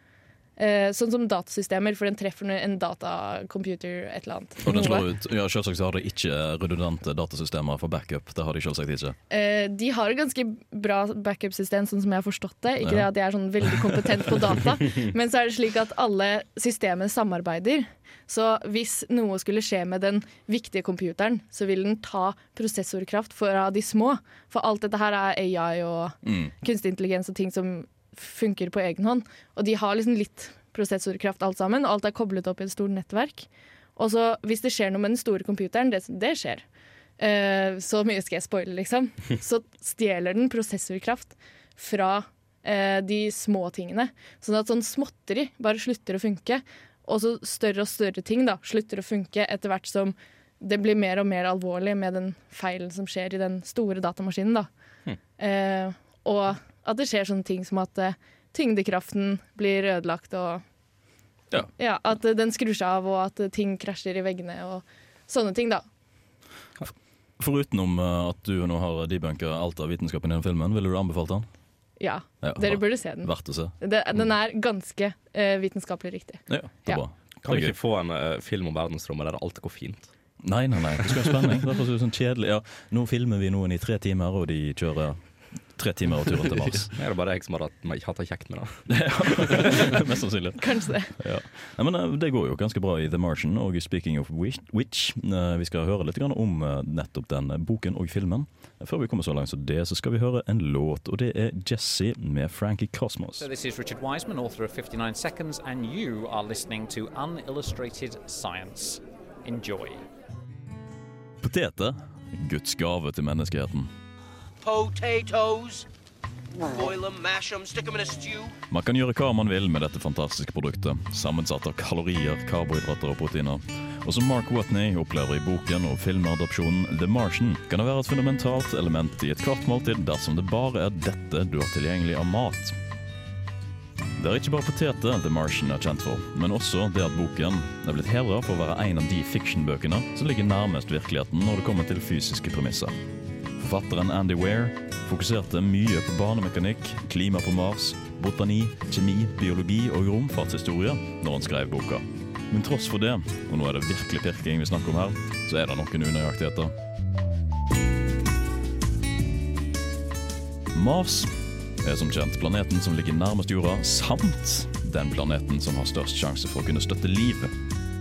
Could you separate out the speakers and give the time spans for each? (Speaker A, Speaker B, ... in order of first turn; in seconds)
Speaker A: 0.6-5.1, 9.3-36.6, 37.2-54.7, 55.4-60.6, 61.8-65.8, 72.0-77.0, 90.6-91.1
Speaker B: 4.6-9.2, 12.8-13.1, 26.2-26.5, 67.4-71.5, 72.4-73.7, 76.5-77.8, 80.4-86.9, 88.9-103.5, 111.4-113.9, 118.7-132.8, 134.2-142.9, 143.6-156.7, 160.7-167.5
Speaker C: 77.4-80.1, 87.0-88.8, 89.4-90.0
Speaker D: 103.4-110.0
Speaker E: 114.6-115.9, 116.6-118.5